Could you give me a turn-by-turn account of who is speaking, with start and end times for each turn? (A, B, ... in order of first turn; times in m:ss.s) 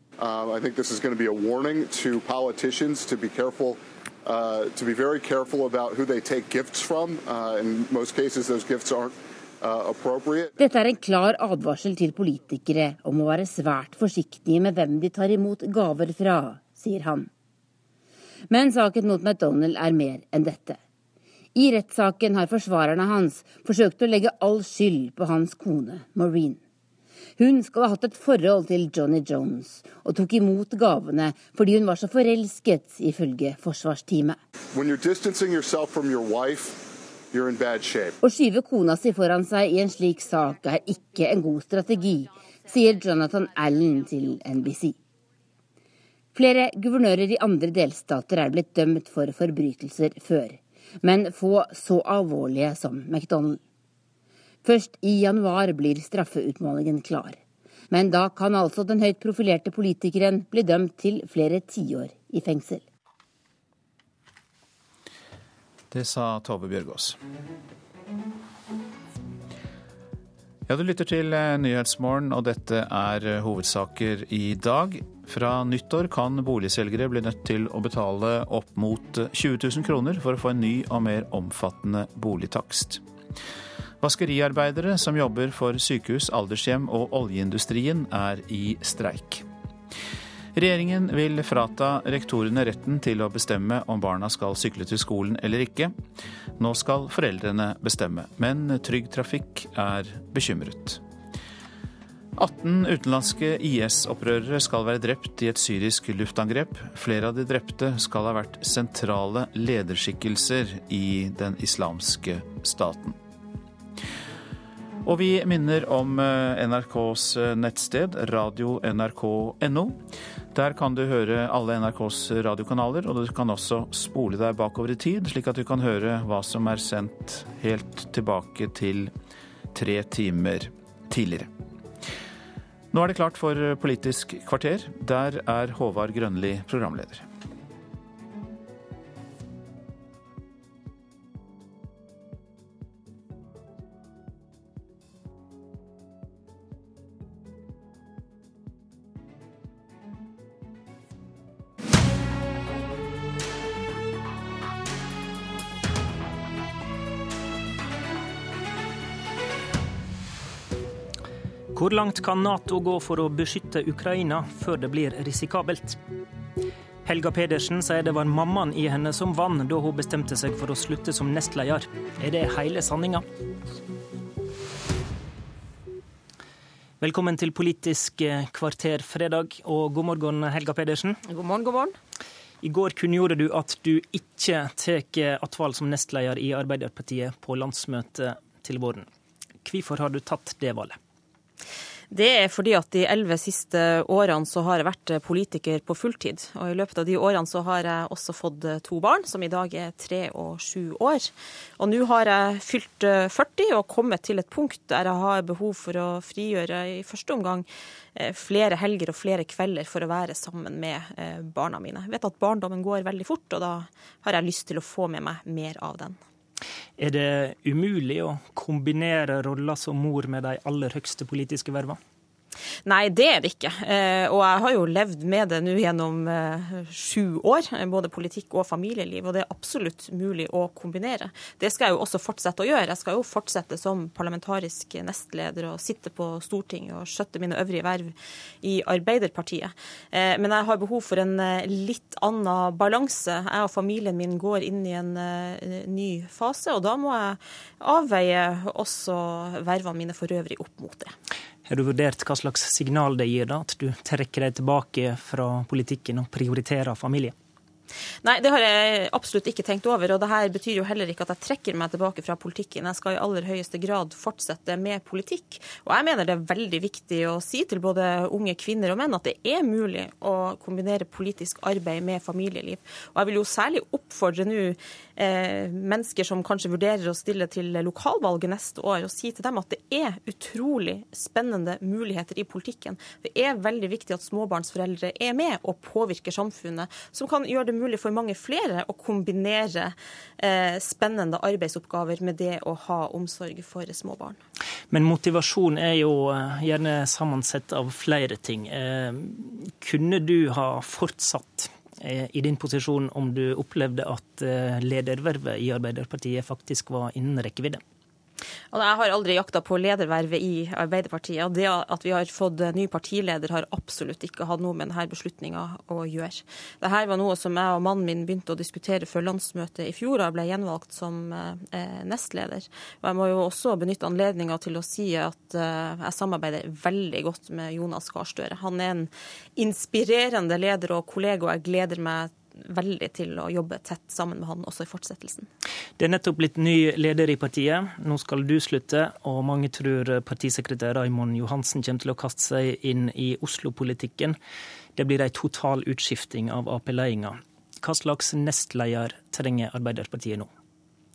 0:00.2-0:10.5 A
0:10.6-0:17.3 B
0:18.5-0:20.8 B
0:21.6-0:26.6 B
0:27.4-0:34.4 B
0:34.7-0:38.2 A
0:38.2-0:44.9 B
0:46.3-0:53.6 B
0:54.6-0:57.4 B
0:57.9-1:02.8 B
1:05.9-1:07.2 C
1:10.7-1:23.0 C
1:24.0-1:29.4 C
1:30.6-1:36.0 C
1:36.6-1:41.0 C
1:42.4-1:53.2 C
1:55.0-2:00.0 C
2:00.5-2:09.1 C
2:09.7-2:11.5 C
2:12.9-2:17.2 C
2:41.7-2:46.0 D
2:47.0-2:53.2 D
2:57.0-3:01.2 D
3:01.3-3:01.9 E
3:02.6-3:09.0 D
3:09.6-3:11.0 D
3:12.1-3:36.2 E
3:37.0-3:42.0 D
3:42.8-4:11.1 E
4:11.7-4:17.3 D
4:18.2-4:54.4 E
4:54.9-5:07.8 D
5:08.7-5:35.5 E
5:36.0-5:44.4 D
5:45.0-5:50.5 D